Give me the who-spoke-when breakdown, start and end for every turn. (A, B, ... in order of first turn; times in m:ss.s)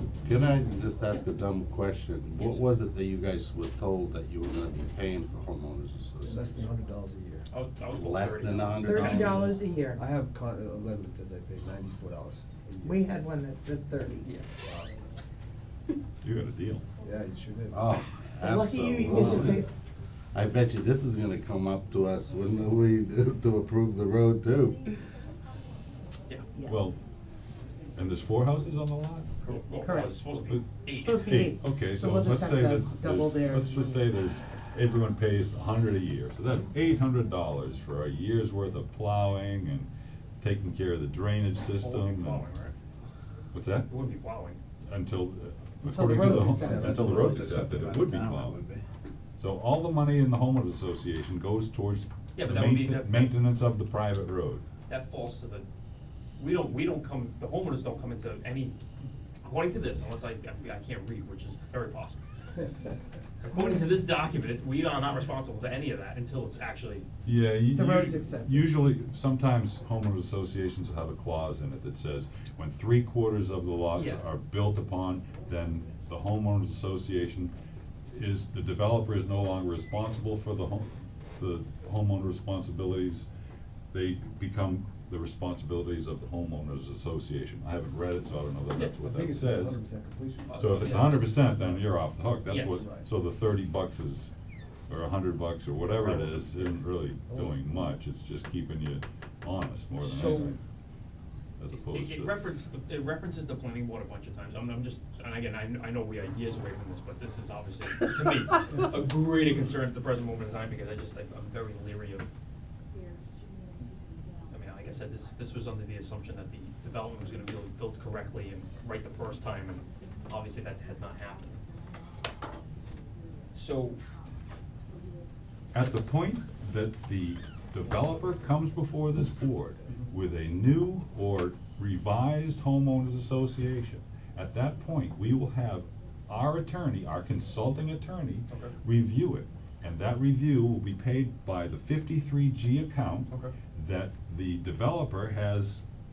0:00.2-0:06.7 A
0:02.4-0:02.6 B
0:06.2-0:07.5 C
0:07.5-0:09.4 B
0:07.9-0:09.6 A
0:08.8-0:10.0 D
0:09.9-0:13.0 C
0:12.8-0:14.3 D
0:14.6-0:14.9 C
0:16.2-0:16.8 E
0:17.0-0:17.8 C
0:17.7-0:19.6 A
0:18.3-0:19.7 D
0:20.3-0:24.9 A
0:26.6-0:27.0 E
0:28.0-0:29.4 E
0:29.4-0:31.5 B
0:29.8-0:30.2 D
0:30.2-0:39.9 E
0:30.9-0:34.1 D
0:40.4-0:42.4 E
0:41.8-0:42.7 B
0:43.5-0:43.9 E
0:43.9-0:44.6 B
0:44.9-0:48.6 E
0:45.8-0:47.1 D
0:46.0-0:48.8 C
0:47.0-0:47.3 A
0:49.4-0:54.6 E
0:52.3-0:53.3 B
0:54.9-0:55.7 B
0:56.4-0:58.8 B
0:59.4-1:02.2 B
1:03.4-1:07.1 B
1:07.2-1:17.5 E
1:07.7-1:08.7 D
1:13.9-1:14.2 B
1:18.1-1:23.2 E
1:23.9-1:29.8 E
1:29.0-1:31.9 C
1:30.5-1:31.4 B
1:30.5-1:34.3 E
1:32.4-1:32.8 B
1:32.8-1:33.1 C
1:34.9-1:40.6 E
1:36.0-1:36.7 C
1:37.3-1:37.6 C
1:40.0-1:40.6 B
1:41.6-1:42.3 E
1:41.8-1:52.3 B
1:54.5-2:01.6 B
2:03.5-2:04.0 B
2:05.7-2:25.8 E
2:18.5-2:18.8 B
2:23.3-2:23.5 B